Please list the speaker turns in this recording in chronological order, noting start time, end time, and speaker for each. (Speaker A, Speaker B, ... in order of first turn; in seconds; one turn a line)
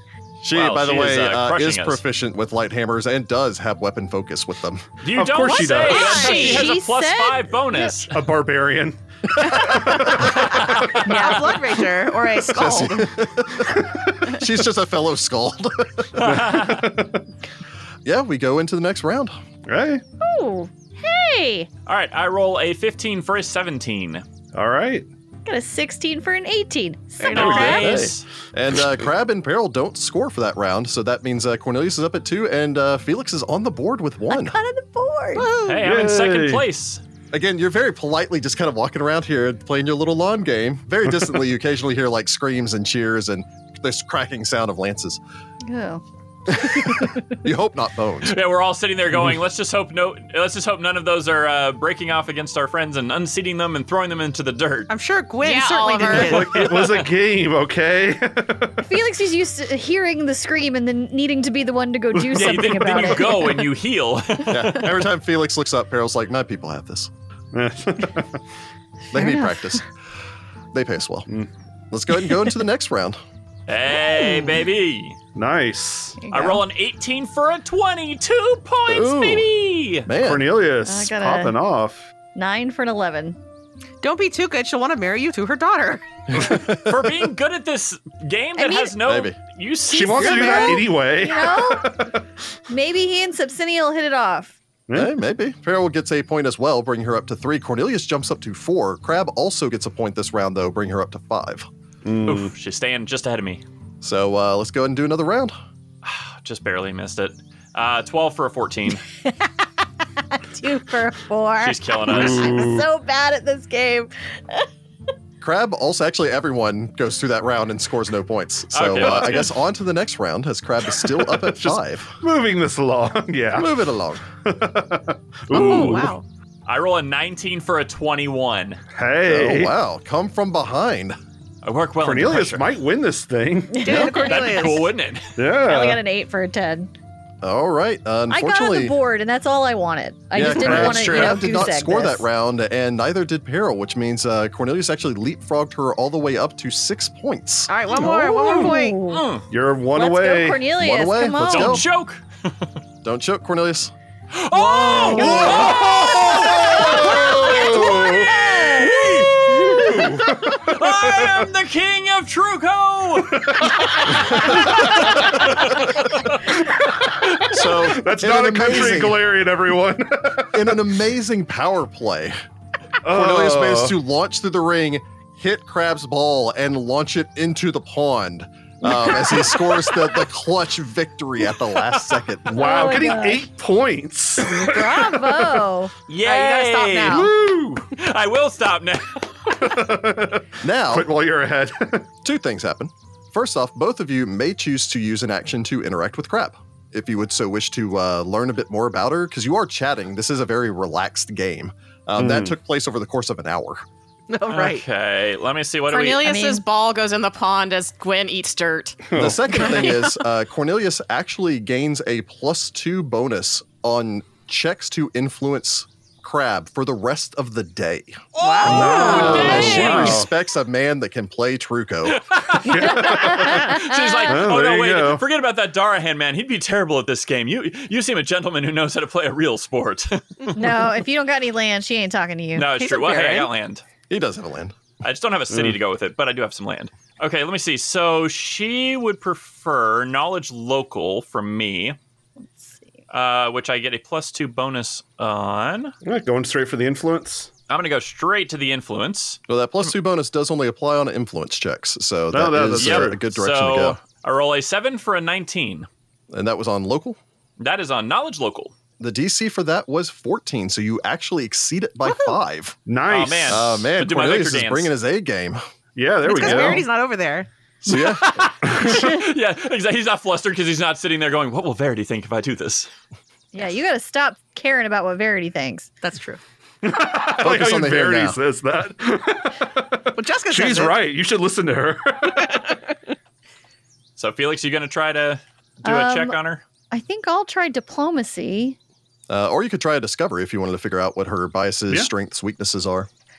Speaker A: 0.4-4.9
Speaker B: 0.5-2.0
Speaker B: 5.0-8.1
Speaker C: 5.1-6.5
Speaker D: 5.8-8.1
Speaker E: 6.2-6.5
Speaker C: 8.1-10.9
Speaker B: 10.1-11.6
Speaker D: 11.0-11.6
Speaker F: 11.0-13.1
Speaker A: 12.5-16.3
Speaker B: 16.2-16.9
Speaker C: 16.2-17.2
Speaker A: 18.0-19.3
Speaker C: 19.7-20.0
Speaker D: 20.2-21.7
Speaker B: 21.9-24.2
Speaker C: 24.5-25.1
Speaker D: 25.4-27.9
Speaker B: 27.2-28.2
Speaker C: 27.3-27.9
Speaker A: 27.6-34.6
Speaker D: 34.3-35.5
Speaker F: 35.3-35.8
Speaker B: 35.6-37.0
Speaker C: 35.8-36.6
Speaker A: 37.3-45.2
Speaker D: 45.6-47.2
Speaker A: 46.5-48.4
Speaker B: 48.2-54.9
Speaker F: 54.9-56.7
Speaker E: 55.4-56.6
Speaker C: 56.1-58.8
Speaker B: 56.5-57.1
Speaker D: 58.8-63.7
Speaker B: 62.3-65.0
Speaker C: 62.4-63.0
Speaker A: 64.5-67.1
Speaker C: 67.5-68.4
Speaker A: 69.1-69.8
Speaker D: 69.1-69.8
Speaker A: 70.7-71.3
Speaker A: 71.9-73.2
Speaker B: 73.7-75.2
Speaker C: 75.3-76.2
Speaker D: 76.2-76.6
Speaker B: 76.3-80.1
Speaker A: 78.9-79.5
Speaker A: 80.0-80.6
Speaker C: 80.2-82.1
Speaker D: 80.8-81.6
Speaker D: 82.3-83.4
Speaker F: 84.0-86.0
Speaker A: 86.3-87.0
Speaker B: 86.7-90.8
Speaker D: 88.6-89.0
Speaker A: 89.0-89.4
Speaker C: 89.9-92.2
Speaker D: 90.0-92.1
Speaker D: 92.7-94.5
Speaker C: 94.9-95.2
Speaker A: 94.9-101.7
Speaker C: 102.0-102.5
Speaker B: 102.2-103.6
Speaker A: 104.0-105.5
Speaker B: 106.0-109.0
Speaker D: 110.3-114.7
Speaker B: 111.6-112.7
Speaker C: 112.0-112.9
Speaker A: 115.4-122.2
Speaker B: 118.7-119.5
Speaker C: 121.0-123.8
Speaker A: 123.5-124.2
Speaker C: 124.4-126.1
Speaker B: 125.5-126.1
Speaker F: 125.5-126.2
Speaker B: 126.7-128.8
Speaker C: 128.9-129.7
Speaker A: 129.3-131.2
Speaker B: 131.6-132.7
Speaker C: 132.0-134.1
Speaker D: 133.7-134.7
Speaker F: 133.8-134.9
Speaker B: 134.2-135.3
Speaker C: 135.3-136.0
Speaker D: 135.6-136.9
Speaker A: 137.4-138.9
Speaker D: 138.3-142.2
Speaker A: 140.3-147.7
Speaker C: 140.4-141.2
Speaker B: 140.8-141.4
Speaker F: 147.7-149.0
Speaker D: 147.9-149.2
Speaker B: 149.1-149.4
Speaker C: 149.5-150.7
Speaker D: 149.9-151.8
Speaker A: 150.8-151.8
Speaker B: 151.4-152.7
Speaker A: 153.0-153.9
Speaker B: 154.3-167.7
Speaker F: 154.5-155.9
Speaker D: 155.2-155.7
Speaker C: 155.2-161.4
Speaker D: 156.3-160.1
Speaker C: 163.3-165.7
Speaker C: 166.6-170.6
Speaker A: 167.5-169.2
Speaker A: 170.5-172.3
Speaker C: 173.0-174.0
Speaker A: 173.0-183.0
Speaker C: 182.5-185.0
Speaker D: 182.5-183.4
Speaker D: 184.6-185.9
Speaker B: 186.1-189.7
Speaker F: 186.2-187.3
Speaker C: 187.1-187.8
Speaker C: 189.5-192.1
Speaker A: 190.6-191.1
Speaker A: 192.2-203.8
Speaker C: 202.2-202.5
Speaker F: 204.3-204.8
Speaker B: 204.5-206.3
Speaker E: 205.9-209.8
Speaker D: 206.2-206.6
Speaker C: 209.1-209.4
Speaker A: 209.1-222.2
Speaker B: 218.3-220.3
Speaker F: 218.4-219.9
Speaker C: 218.6-220.3
Speaker B: 222.1-230.5
Speaker C: 222.6-225.2
Speaker D: 222.8-224.4
Speaker D: 230.5-232.7
Speaker B: 232.6-233.8
Speaker F: 232.7-233.5
Speaker A: 234.1-234.8
Speaker B: 235.0-242.0
Speaker B: 243.1-245.9
Speaker C: 246.0-247.5
Speaker B: 247.7-249.4
Speaker A: 249.5-254.0
Speaker C: 252.3-253.2
Speaker B: 252.8-255.9
Speaker A: 256.3-257.2
Speaker B: 257.6-258.7
Speaker A: 259.0-262.8
Speaker C: 262.9-263.6
Speaker B: 263.1-264.9
Speaker A: 263.5-265.6
Speaker C: 265.9-266.9
Speaker F: 266.2-267.5
Speaker A: 267.8-268.4
Speaker B: 267.9-272.9
Speaker C: 268.7-269.1
Speaker D: 273.5-275.9
Speaker F: 276.0-276.4
Speaker C: 276.8-282.7
Speaker A: 277.4-278.4
Speaker F: 280.1-281.0
Speaker B: 284.2-286.6
Speaker D: 285.8-286.4
Speaker D: 286.9-288.8
Speaker A: 289.3-293.1